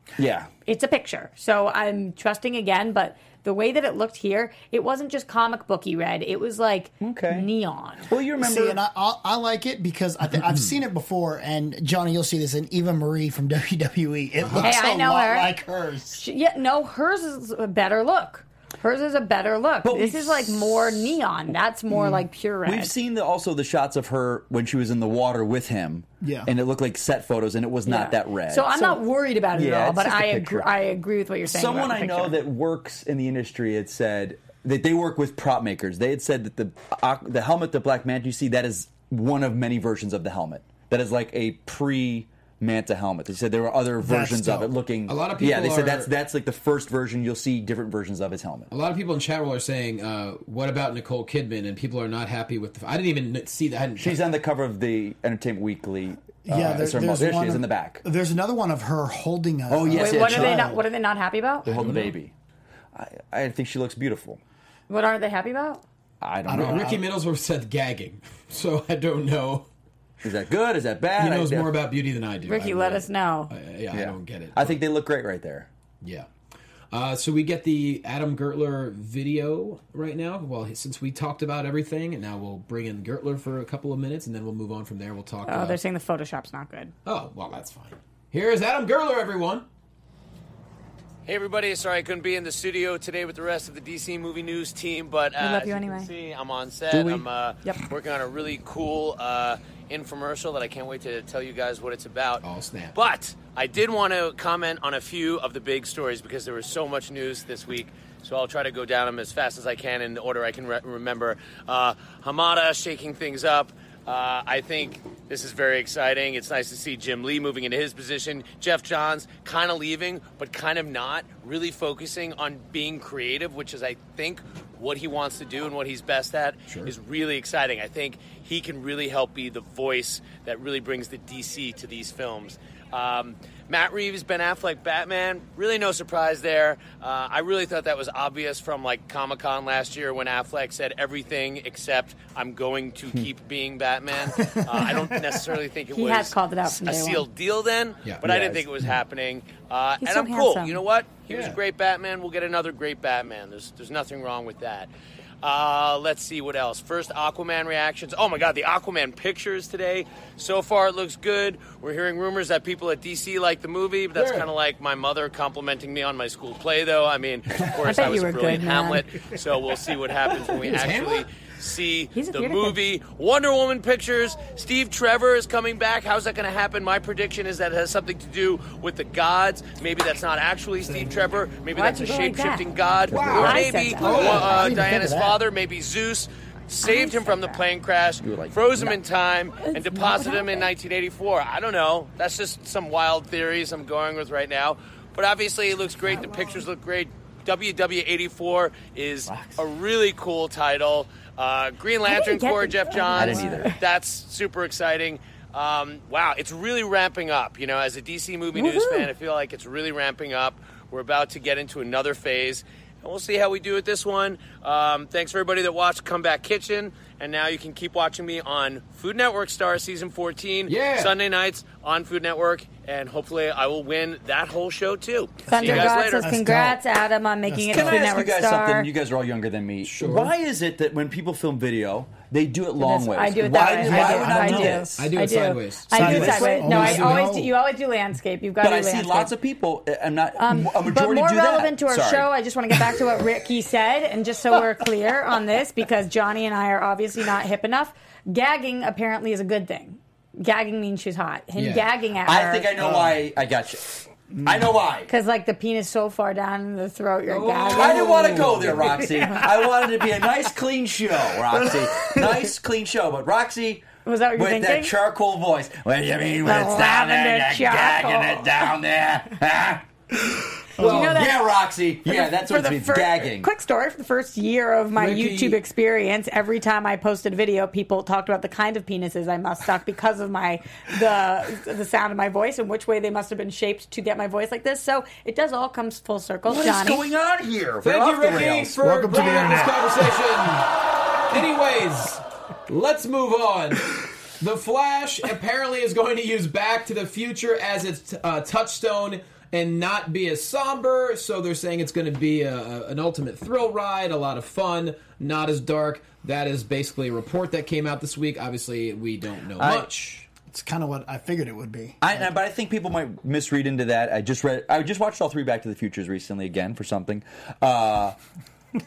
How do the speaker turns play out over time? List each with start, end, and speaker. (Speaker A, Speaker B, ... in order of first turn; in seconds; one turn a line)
Speaker A: 0.2-0.5
Speaker B: 0.7-8.1
Speaker A: 7.0-7.5
Speaker A: 8.1-8.8
Speaker C: 8.4-16.2
Speaker D: 10.3-10.8
Speaker D: 14.4-14.7
Speaker B: 14.6-15.5
Speaker B: 16.1-22.9
Speaker A: 19.8-21.2
Speaker A: 22.6-30.7
Speaker C: 26.2-26.5
Speaker B: 27.9-32.4
Speaker A: 31.4-48.7
Speaker C: 44.0-44.7
Speaker D: 45.1-46.1
Speaker D: 48.7-54.2
Speaker A: 54.0-58.0
Speaker C: 56.4-60.8
Speaker A: 59.7-60.7
Speaker B: 59.9-61.7
Speaker A: 61.6-62.3
Speaker D: 61.7-62.1
Speaker A: 62.9-64.4
Speaker B: 64.9-65.8
Speaker A: 66.2-67.0
Speaker C: 66.5-67.0
Speaker D: 66.5-69.7
Speaker A: 70.2-71.7
Speaker D: 71.1-74.8
Speaker B: 72.5-73.5
Speaker A: 73.9-75.7
Speaker D: 76.0-76.3
Speaker D: 76.9-85.8
Speaker B: 85.5-86.9
Speaker D: 87.0-89.7
Speaker E: 91.2-154.9
Speaker B: 95.4-96.1
Speaker A: 96.9-97.2
Speaker D: 102.4-102.9
Speaker D: 126.7-126.9
Speaker C: 144.3-145.5
Speaker B: 145.9-147.2
Speaker A: 148.2-148.7
Speaker B: 150.0-150.8
Speaker D: 151.3-151.6
Speaker E: 155.4-226.3
Speaker D: 164.1-164.5
Speaker B: 167.8-169.0
Speaker D: 170.5-171.2
Speaker B: 172.1-172.8
Speaker B: 181.7-182.7
Speaker A: 183.1-183.6
Speaker D: 183.1-184.6
Speaker B: 183.3-184.8
Speaker C: 184.4-185.4
Speaker B: 186.8-187.7
Speaker A: 188.2-189.0
Speaker B: 189.6-190.7
Speaker B: 196.1-196.6
Speaker A: 199.3-199.6
Speaker B: 202.1-203.8
Speaker A: 203.1-203.7
Speaker B: 208.5-209.1
Speaker D: 220.7-221.2
Speaker B: 225.5-228.9
Speaker C: 225.5-226.8
Speaker C: 227.5-228.0
Speaker A: 227.7-235.1
Speaker D: 229.8-230.3
Speaker B: 232.8-239.3
Speaker C: 233.5-234.9
Speaker D: 234.9-237.2
Speaker C: 235.9-237.5
Speaker A: 236.1-236.6
Speaker A: 238.6-242.3
Speaker B: 240.4-252.7
Speaker D: 251.6-251.9
Speaker A: 252.2-255.1
Speaker C: 252.8-253.2
Speaker C: 254.3-254.8
Speaker B: 255.1-259.5
Speaker D: 257.3-259.1
Speaker A: 257.7-269.9
Speaker B: 264.0-264.9
Speaker B: 266.4-268.7
Speaker A: 270.7-273.5
Speaker C: 270.8-271.1
Speaker B: 270.8-287.1
Speaker D: 270.8-271.2
Speaker D: 274.9-275.6
Speaker A: 286.4-288.8
Speaker D: 287.8-290.7
Speaker C: 288.8-290.1
Speaker D: 291.3-310.3
Speaker A: 309.6-309.9
Speaker C: 310.5-312.3
Speaker A: 312.0-318.1